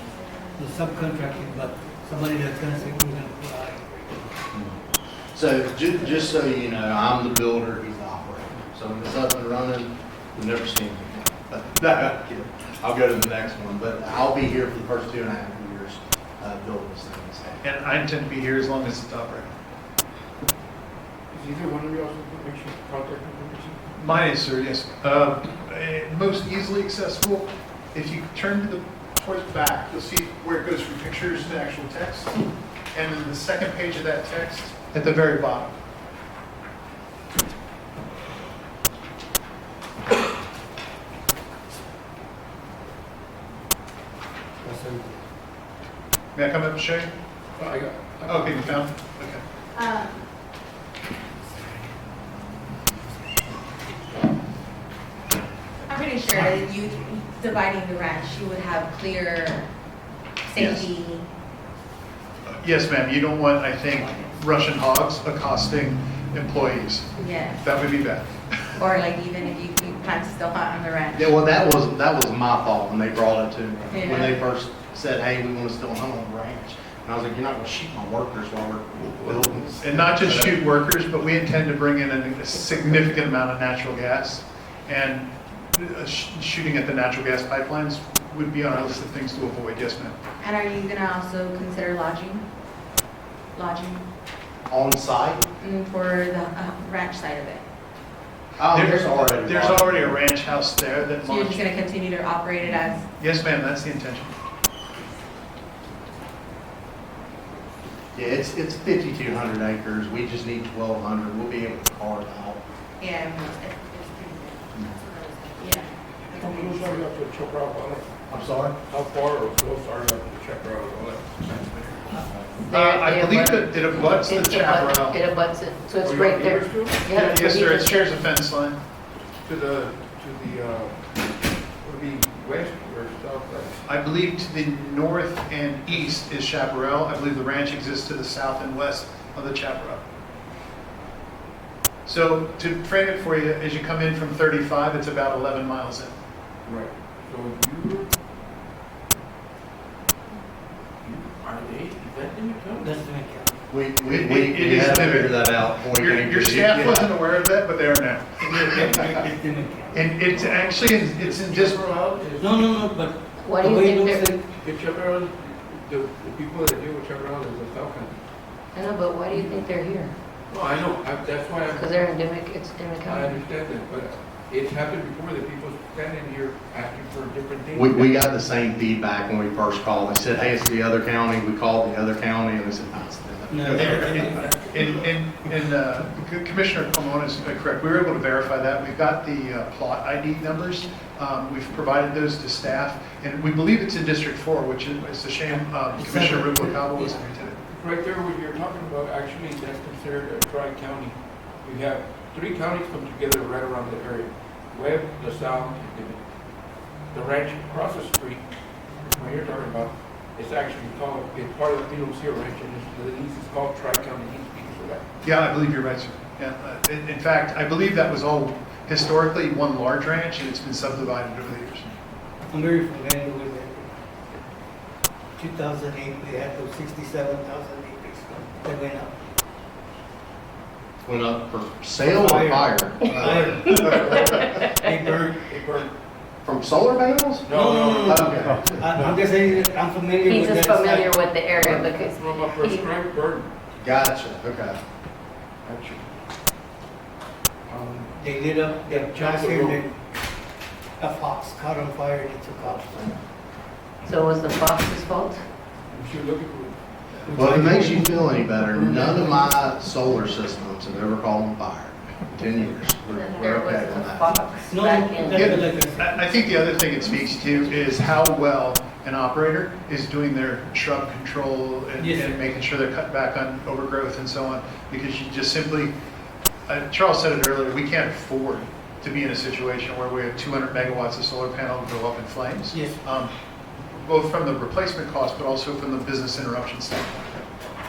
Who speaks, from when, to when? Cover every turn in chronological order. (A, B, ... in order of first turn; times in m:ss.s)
0:00.6-0:04.2 A
0:05.3-0:17.6 B
0:11.8-0:12.1 C
0:17.6-0:19.6 C
0:21.3-0:23.8 D
0:24.0-0:32.4 C
0:32.9-0:35.8 C
0:44.6-0:45.2 A
0:46.4-0:47.1 C
0:47.6-0:48.9 D
0:48.3-0:49.4 C
0:49.7-0:50.3 E
0:55.9-0:59.7 E
1:00.4-1:01.3 E
1:00.6-1:00.9 C
1:02.6-1:08.8 C
1:07.2-1:07.7 E
1:08.8-1:11.3 E
1:11.2-1:20.6 B
1:13.9-1:14.3 E
1:19.2-1:19.6 D
1:19.8-1:30.2 C
1:30.4-1:32.5 E
1:33.5-1:34.1 E
1:34.7-1:35.4 B
1:35.6-1:37.7 E
1:38.6-1:40.2 B
1:38.7-1:41.7 C
1:41.2-1:43.1 E
1:43.2-1:44.3 C
1:48.2-1:52.6 B
1:53.0-1:57.1 E
1:56.4-1:58.1 D
1:58.3-1:58.8 B
1:58.8-2:02.5 D
2:02.7-2:05.2 C
2:02.7-2:03.6 F
2:04.1-2:08.0 F
2:06.0-2:07.1 D
2:07.1-2:08.8 C
2:09.4-2:11.1 D
2:11.8-2:13.8 D
2:13.9-2:20.0 C
2:22.0-2:26.2 C
2:26.6-2:28.2 D
2:31.0-2:33.0 D
2:32.8-2:33.6 A
2:33.7-2:37.1 B
2:34.0-2:39.0 C
2:38.4-2:40.0 A
2:39.9-2:41.8 C
2:40.2-2:42.8 D
2:42.4-2:44.4 A
2:43.5-2:44.3 F
2:44.6-2:48.2 D
2:48.8-2:50.1 F
2:50.5-2:52.1 D
2:51.8-2:53.2 F
2:53.0-2:58.3 D
2:57.7-3:04.3 B
3:03.5-3:04.5 A
3:03.7-3:17.6 C
3:15.9-3:17.3 A
3:17.7-3:26.2 D
3:27.1-3:28.5 D
3:29.0-3:35.0 D
3:35.2-3:41.9 C
3:42.5-3:43.9 A
3:45.4-3:49.2 A
3:51.0-3:54.2 B
3:52.0-3:55.5 A
3:53.8-3:55.9 D
3:56.4-3:57.5 B
3:57.4-3:58.7 D
3:57.5-4:01.1 A
3:58.0-3:59.0 B
4:00.3-4:02.9 F
4:01.5-4:03.5 D
4:01.6-4:01.9 B
4:03.8-4:04.8 B
4:05.6-4:06.1 D
4:07.7-4:08.2 D
4:08.2-4:10.0 A
4:08.8-4:09.8 D
4:11.0-4:13.2 A
4:14.1-4:15.4 F
4:15.9-4:17.9 D
4:17.3-4:19.3 A
4:17.3-4:24.4 B
4:23.2-4:25.1 F
4:24.7-4:26.6 A
4:25.3-4:35.9 C
4:32.0-4:32.4 A
4:36.7-4:43.3 C
4:43.9-4:47.5 C